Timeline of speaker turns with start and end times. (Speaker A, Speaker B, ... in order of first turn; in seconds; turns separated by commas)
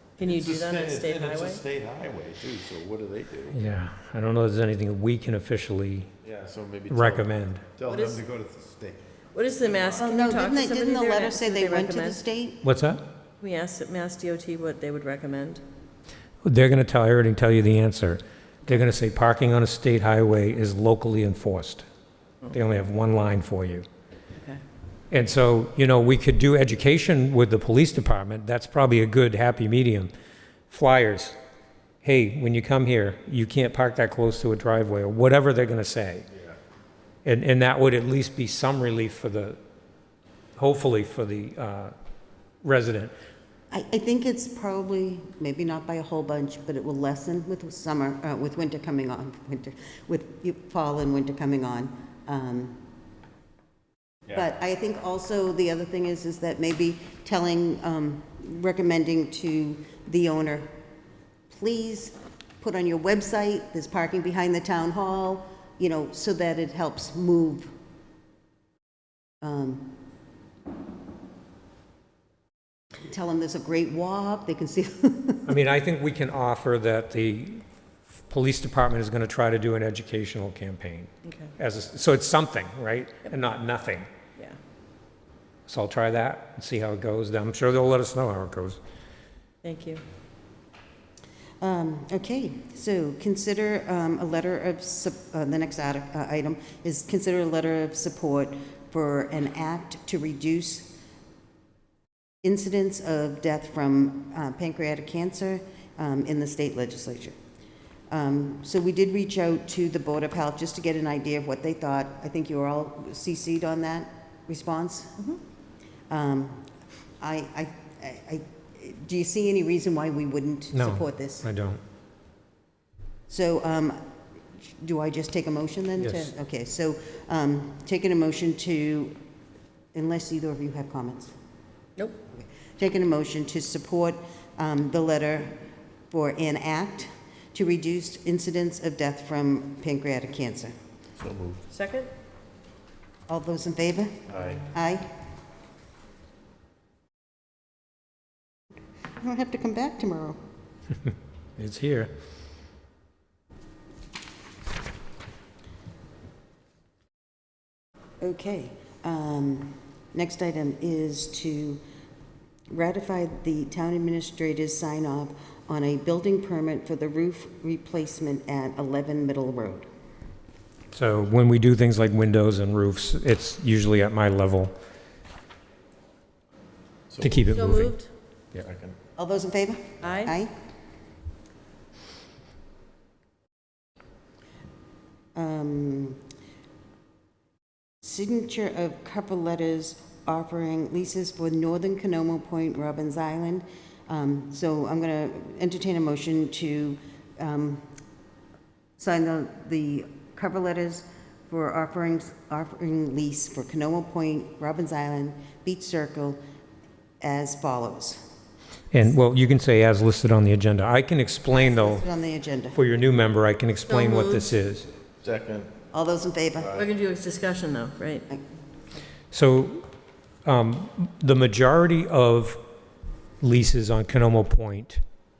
Speaker A: 0.2-1.6, Speaker B: 0.2-3.6, Speaker C: 3.5-6.1, Speaker B: 6.2-9.0, Speaker C: 6.9-7.6, Speaker A: 7.9-8.2, Speaker A: 9.3-12.2, Speaker B: 9.7-10.0, Speaker D: 9.9-12.6, Speaker C: 12.6-13.0, Speaker A: 13.4-15.6, Speaker C: 16.4-21.9, Speaker C: 22.5-23.8, Speaker A: 24.4-24.6, Speaker C: 25.1-30.1, Speaker C: 30.7-31.4, Speaker C: 32.0-36.2, Speaker C: 37.2-39.6, Speaker C: 40.6-41.9, Speaker C: 42.6-43.1, Speaker D: 43.7-52.8, Speaker D: 54.3-60.7, Speaker D: 61.5-67.7, Speaker D: 69.4-69.9, Speaker D: 73.0-75.5, Speaker C: 75.5-77.6, Speaker C: 78.3-84.1, Speaker C: 85.7-88.8, Speaker A: 89.6-90.0, Speaker D: 91.6-100.9, Speaker D: 102.4-107.4, Speaker D: 108.1-115.2, Speaker D: 116.1-116.7, Speaker D: 117.2-121.5, Speaker C: 120.7-121.8, Speaker D: 123.3-124.0, Speaker D: 124.8-129.2, Speaker C: 126.0-126.3, Speaker D: 129.9-131.3, Speaker D: 132.3-135.6, Speaker D: 136.1-140.7, Speaker B: 141.2-141.6, Speaker A: 141.7-142.1, Speaker D: 143.3-145.1, Speaker B: 144.3-144.6, Speaker D: 149.2-150.4, Speaker C: 151.6-152.1, Speaker D: 158.2-161.8, Speaker D: 162.7-169.9, Speaker C: 170.9-174.7, Speaker B: 177.1-177.6, Speaker C: 177.2-177.9, Speaker A: 177.5-178.1, Speaker B: 178.6-179.0, Speaker D: 179.2-180.5, Speaker A: 180.0-180.3, Speaker D: 185.3-186.2, Speaker D: 188.0-197.8, Speaker D: 199.0-206.4, Speaker D: 207.2-208.2, Speaker C: 208.9-212.0, Speaker D: 211.5-212.8, Speaker C: 212.7-214.9, Speaker A: 213.9-214.5, Speaker B: 215.2-215.7, Speaker D: 215.9-216.7, Speaker B: 216.6-216.9, Speaker A: 216.7-218.3, Speaker C: 219.3-219.8, Speaker C: 220.4-222.6, Speaker C: 223.4-225.0